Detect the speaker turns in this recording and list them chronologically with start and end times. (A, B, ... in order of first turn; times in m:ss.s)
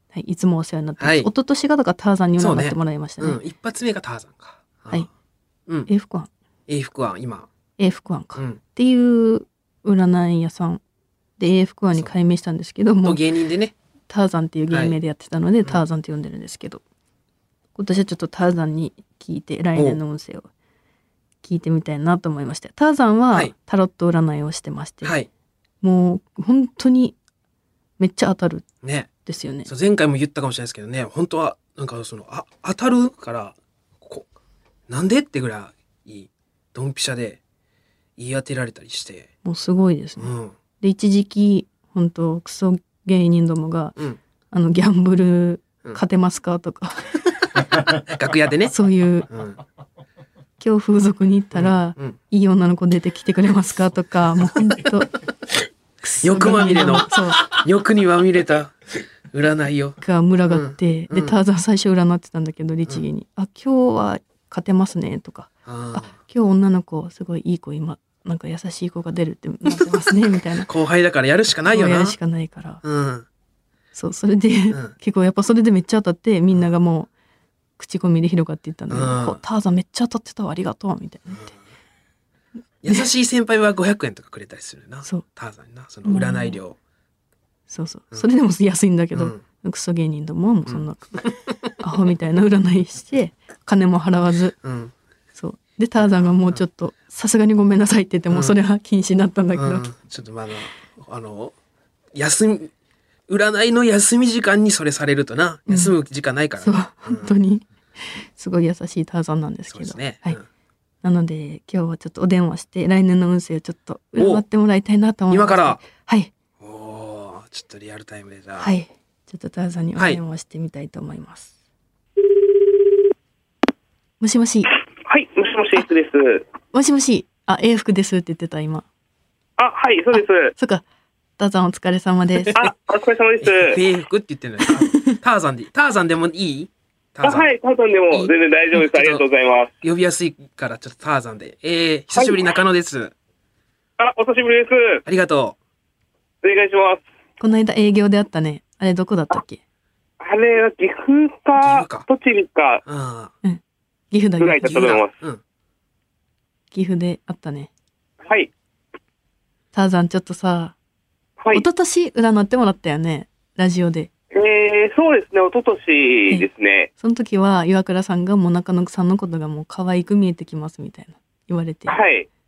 0:00.1-0:03.4 A
0:01.0-0:01.3 B
0:02.4-0:05.1 B
0:05.9-0:06.3 A
0:06.7-0:07.5 B
0:07.8-0:10.8 A
0:11.4-0:13.2 A
0:13.0-0:13.7 B
0:14.1-0:16.8 A
0:14.7-0:15.0 B
0:17.8-0:20.5 A
0:21.4-0:25.2 A
0:25.0-0:25.3 B
0:25.8-0:27.2 A
0:28.0-0:28.7 A
0:28.8-0:29.1 B
0:29.2-0:29.7 A
0:29.7-0:34.3 B
0:34.9-0:37.4 B
0:38.2-0:39.3 B
0:39.4-0:44.0 A
0:40.2-0:40.6 B
0:44.5-0:47.1 A
0:48.1-0:48.7 B
0:48.7-0:49.3 A
0:49.3-0:49.6 B
0:50.6-0:55.1 A
0:51.5-0:52.2 B
0:56.0-0:57.5 A
0:56.2-1:00.0 B
1:00.0-1:10.7 A
1:00.5-1:01.4 B
1:05.7-1:06.1 B
1:09.7-1:10.0 B
1:10.7-1:12.2 B
1:11.7-1:12.8 A
1:12.8-1:13.3 B
1:13.9-1:17.1 A
1:17.8-1:21.5 A
1:18.9-1:19.4 B
1:21.3-1:21.6 B
1:22.8-1:26.8 B
1:26.0-1:26.6 A
1:27.7-1:34.6 A
1:29.1-1:29.4 B
1:30.7-1:31.5 B
1:34.6-1:34.9 B
1:35.4-1:39.9 A
1:36.0-1:36.6 B
1:38.3-1:38.6 B
1:39.5-1:41.6 B
1:42.1-1:42.7 B
1:43.3-1:47.3 B
1:45.7-1:46.0 A
1:46.6-1:50.4 A
1:49.7-1:50.4 B
1:51.0-1:56.3 A
1:54.2-1:54.4 B
1:55.3-1:55.8 B
1:56.6-1:58.7 B
1:58.6-2:01.5 A
2:04.2-2:04.7 A
2:05.1-2:06.4 C
2:06.7-2:08.8 A
2:09.6-2:10.5 C
2:10.1-2:10.8 A
2:11.4-2:12.6 A
2:12.4-2:12.7 B
2:12.5-2:13.8 C
2:13.4-2:17.5 B
2:14.7-2:15.2 A
2:17.2-2:19.7 C
2:18.1-2:19.2 B
2:19.8-2:23.1 B
2:22.2-2:22.4 C
2:24.0-2:25.0 C
2:25.1-2:25.6 B
2:26.4-2:27.0 C
2:27.4-2:29.6 A
2:30.2-2:32.8 C
2:31.6-2:32.1 B
2:32.9-2:33.3 B
2:33.4-2:35.0 A
2:34.4-2:35.1 C
2:34.6-2:35.4 B
2:36.7-2:37.7 A
2:38.2-2:38.5 C
2:39.7-2:40.8 A
2:41.4-2:41.6 C
2:41.5-2:44.1 A
2:44.4-2:46.9 C
2:47.0-2:52.0 A
2:51.9-2:52.3 C